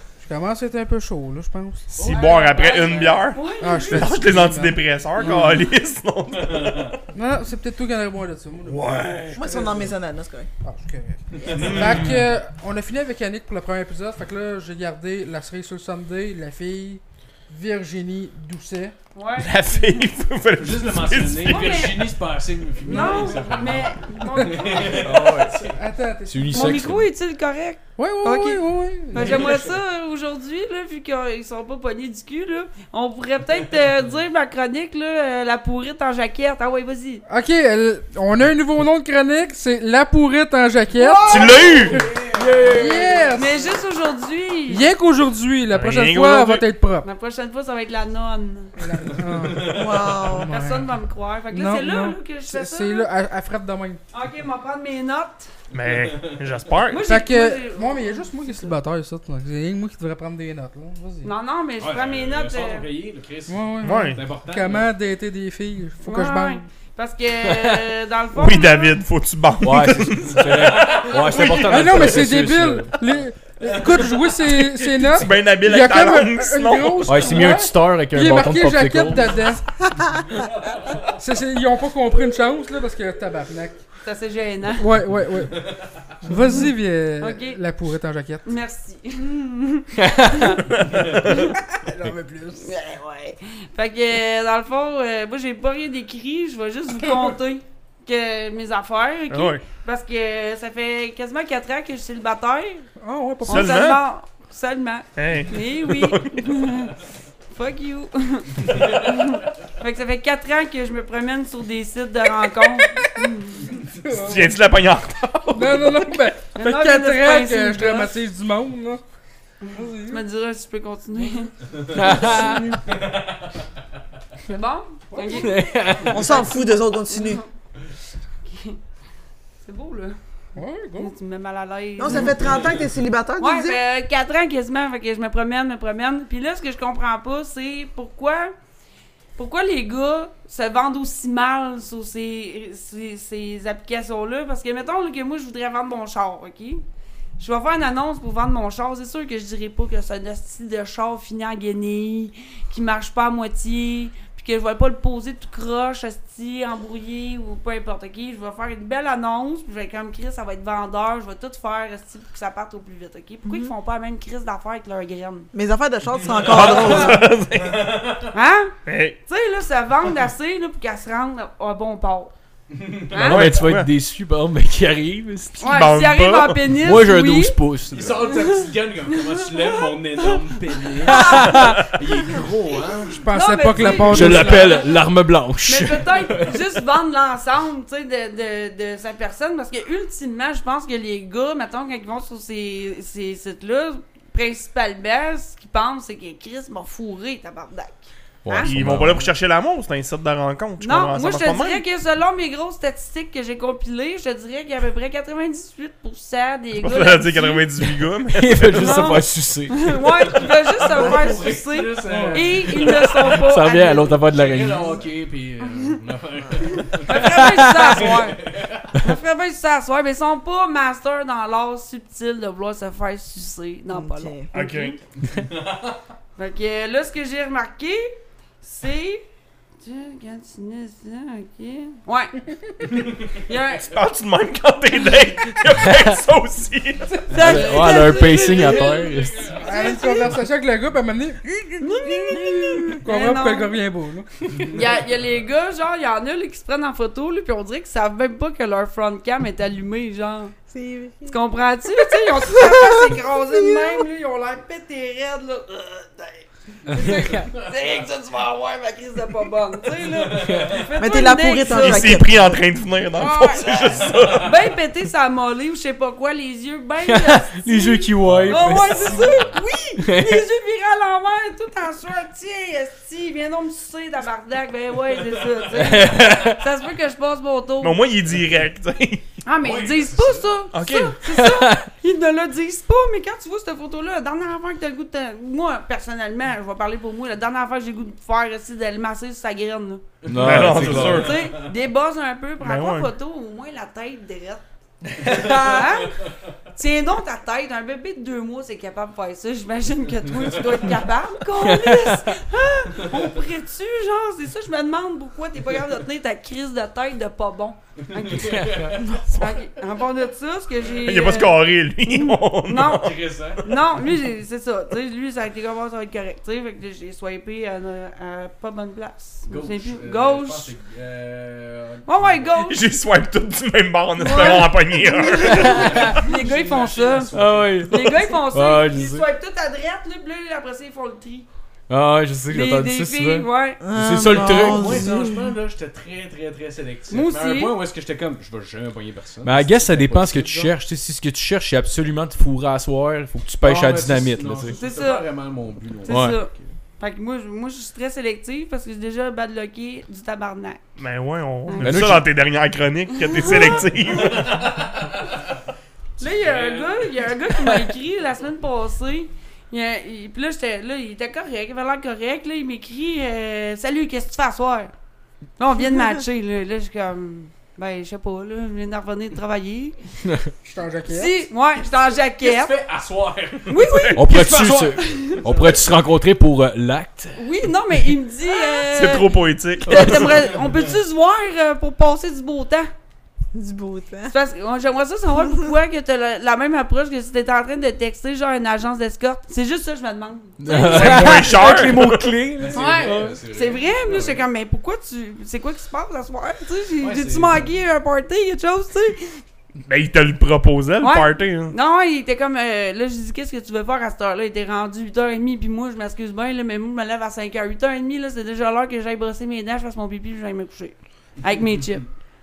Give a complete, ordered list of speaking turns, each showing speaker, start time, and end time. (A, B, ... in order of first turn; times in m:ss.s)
0:00.2-0:01.9 A
0:01.9-0:07.0 B
0:02.0-0:03.4 C
0:02.0-0:04.2 D
0:03.6-0:05.7 A
0:06.4-0:06.9 C
0:07.1-0:09.9 A
0:08.7-0:09.4 B
0:09.3-0:10.5 E
0:10.6-0:19.0 A
0:11.4-0:12.2 C
0:11.5-0:12.2 B
0:19.2-0:19.9 D
0:19.4-0:22.1 B
0:20.6-0:25.8 C
0:21.4-0:22.1 D
0:22.8-0:26.9 A
0:22.9-0:25.1 D
0:25.0-0:25.6 F
0:26.3-0:27.1 F
0:26.5-0:37.2 D
0:28.0-0:29.6 A
0:29.2-0:29.7 C
0:37.3-0:42.0 A
0:41.0-0:42.0 E
0:41.3-0:42.0 B
0:41.5-0:43.3 C
0:42.4-0:43.2 F
0:42.7-0:43.7 A
0:43.3-0:44.9 D
0:44.7-0:47.1 A
0:45.7-0:46.7 B
0:47.0-0:48.7 D
0:48.8-0:51.0 A
0:49.2-0:50.0 C
0:49.6-0:50.5 E
0:50.3-0:53.1 D
0:51.5-0:54.0 A
0:54.1-0:55.5 D
0:55.7-0:57.1 B
0:55.8-0:56.5 C
0:56.9-0:58.5 D
0:57.0-1:01.3 A
1:01.2-1:02.9 D
1:01.8-1:04.9 C
1:03.5-1:06.6 A
1:03.8-1:04.2 B
1:06.0-1:09.0 D
1:07.5-1:07.9 F
1:08.4-1:12.3 B
1:09.6-1:12.9 F
1:11.6-1:19.6 A
1:15.1-1:17.6 B
1:17.1-1:19.3 F
1:21.1-1:23.8 A
1:24.0-1:24.9 D
1:24.8-1:25.7 A
1:26.2-1:28.5 A
1:27.2-1:27.6 D
1:28.4-1:30.7 D
1:30.0-1:30.5 F
1:30.7-1:31.4 B
1:31.3-1:32.7 A
1:32.6-1:42.9 D
1:39.3-1:39.6 B
1:43.0-1:43.9 A
1:43.4-1:47.0 D
1:43.5-1:44.0 B
1:45.2-1:46.6 B
1:47.5-1:53.8 D
1:52.6-1:53.3 A
1:53.9-1:54.6 A
1:54.1-1:56.1 B
1:55.5-1:59.0 A
1:56.6-1:58.1 D
1:59.6-2:01.5 D
1:59.7-2:00.2 A
2:01.9-2:02.6 F
2:02.1-2:02.7 A
2:02.2-2:02.5 D
2:02.9-2:03.6 C
2:04.5-2:05.6 D
2:05.2-2:05.6 A
2:05.3-2:06.4 F
2:06.1-2:07.4 E
2:06.2-2:07.4 D
2:08.5-2:08.8 D
2:09.6-2:10.2 D
2:10.6-2:11.1 A
2:11.0-2:12.6 D
2:12.0-2:13.8 E
2:13.4-2:18.5 D
2:19.4-2:26.8 D
2:27.4-2:45.5 D
2:43.4-2:43.7 E
2:45.5-2:47.3 E
2:46.2-2:47.0 C
2:46.4-2:48.2 B
2:47.6-2:48.3 C
2:48.3-2:52.3 D
2:48.8-2:49.2 B
2:52.7-2:53.3 C
2:53.1-2:53.6 D
2:53.1-2:55.9 F
2:53.2-2:53.9 B
2:55.6-2:57.6 D
2:55.6-2:56.7 B
2:56.7-2:58.3 F
2:57.9-3:04.1 C
2:58.3-3:00.3 D
3:01.0-3:01.8 D
3:01.1-3:01.8 F
3:03.2-3:04.8 A
3:03.3-3:05.0 D
3:04.0-3:06.6 F
3:05.6-3:18.7 D
3:18.4-3:19.3 F
3:18.6-3:21.8 B
3:20.8-3:27.7 D
3:26.8-3:29.2 B
3:28.3-3:30.1 F
3:28.8-3:34.3 D
3:30.5-3:33.4 C
3:32.0-3:32.5 A
3:32.7-3:35.0 F
3:34.3-3:38.9 C
3:36.6-3:38.4 D
3:37.1-3:38.1 F
3:39.0-3:45.0 D
3:43.9-3:44.5 E
3:44.5-3:45.0 B
3:45.5-3:46.0 C
3:46.4-3:49.2 D
3:49.8-3:52.4 D
3:53.4-3:53.9 D
3:53.8-3:57.5 B
3:55.9-3:56.1 F
3:57.3-4:00.3 D
3:57.4-3:59.5 F
3:57.4-3:58.0 A
3:59.2-4:00.0 C
3:59.6-4:04.7 A
4:01.8-4:03.8 D
4:04.7-4:10.6 D
4:10.7-4:11.4 E
4:11.2-4:22.2 D
4:12.5-4:14.0 E
4:20.2-4:20.9 C
4:20.4-4:20.8 F
4:21.0-4:22.6 E
4:21.7-4:24.6 B
4:23.2-4:23.7 D
4:23.8-4:24.3 C
4:24.3-4:38.0 D
4:27.0-4:29.3 F
4:28.2-4:29.6 C
4:30.0-4:30.5 F
4:35.7-4:36.6 F
4:37.8-4:39.3 B
4:39.4-4:50.0 D
4:39.6-4:40.5 C
4:40.7-4:41.2 B
4:41.2-4:41.9 F
4:50.2-4:51.7 C
4:50.3-4:51.4 F
4:50.4-4:51.5 B
4:51.0-4:54.6 D
4:52.6-4:53.1 B
4:55.2-4:56.2 D
4:55.2-4:56.0 C
4:56.7-5:20.7 D
5:01.6-5:02.4 F
5:08.1-5:09.0 C
5:08.6-5:08.9 F
5:11.0-5:13.8 B
5:12.8-5:13.6 C
5:19.5-5:22.5 C
5:22.1-5:22.8 D
5:22.6-5:25.9 B
5:24.2-5:31.5 D
5:25.5-5:27.8 C
5:25.5-5:26.2 F
5:27.3-5:29.3 F
5:31.9-5:35.0 F
5:32.5-5:33.8 D
5:33.8-5:35.5 E
5:34.0-5:40.7 C
5:37.1-5:37.7 D
5:39.4-5:44.8 F
5:43.6-5:46.7 C
5:44.8-5:45.3 D
5:46.1-5:50.8 D
5:46.1-5:46.4 F
5:51.0-5:54.6 B
5:51.7-5:52.0 D
5:51.8-5:52.3 F
5:53.2-5:53.9 D
5:54.2-5:55.0 C
5:56.2-6:04.9 D
5:56.2-5:57.3 C
6:05.6-6:10.0 D
6:10.6-6:11.4 A
6:11.1-6:12.7 D
6:12.4-6:13.7 C
6:13.7-6:15.4 D
6:13.7-6:14.3 B
6:14.2-6:17.4 F
6:14.4-6:15.9 C
6:17.4-6:22.9 D
6:18.9-6:20.5 B
6:23.5-6:24.3 E
6:24.3-6:31.8 D
6:30.6-6:33.4 F
6:30.7-6:32.3 B
6:32.6-6:34.5 C
6:32.7-6:39.4 D
6:37.0-6:37.7 C
6:39.9-6:41.8 B
6:41.0-6:52.1 D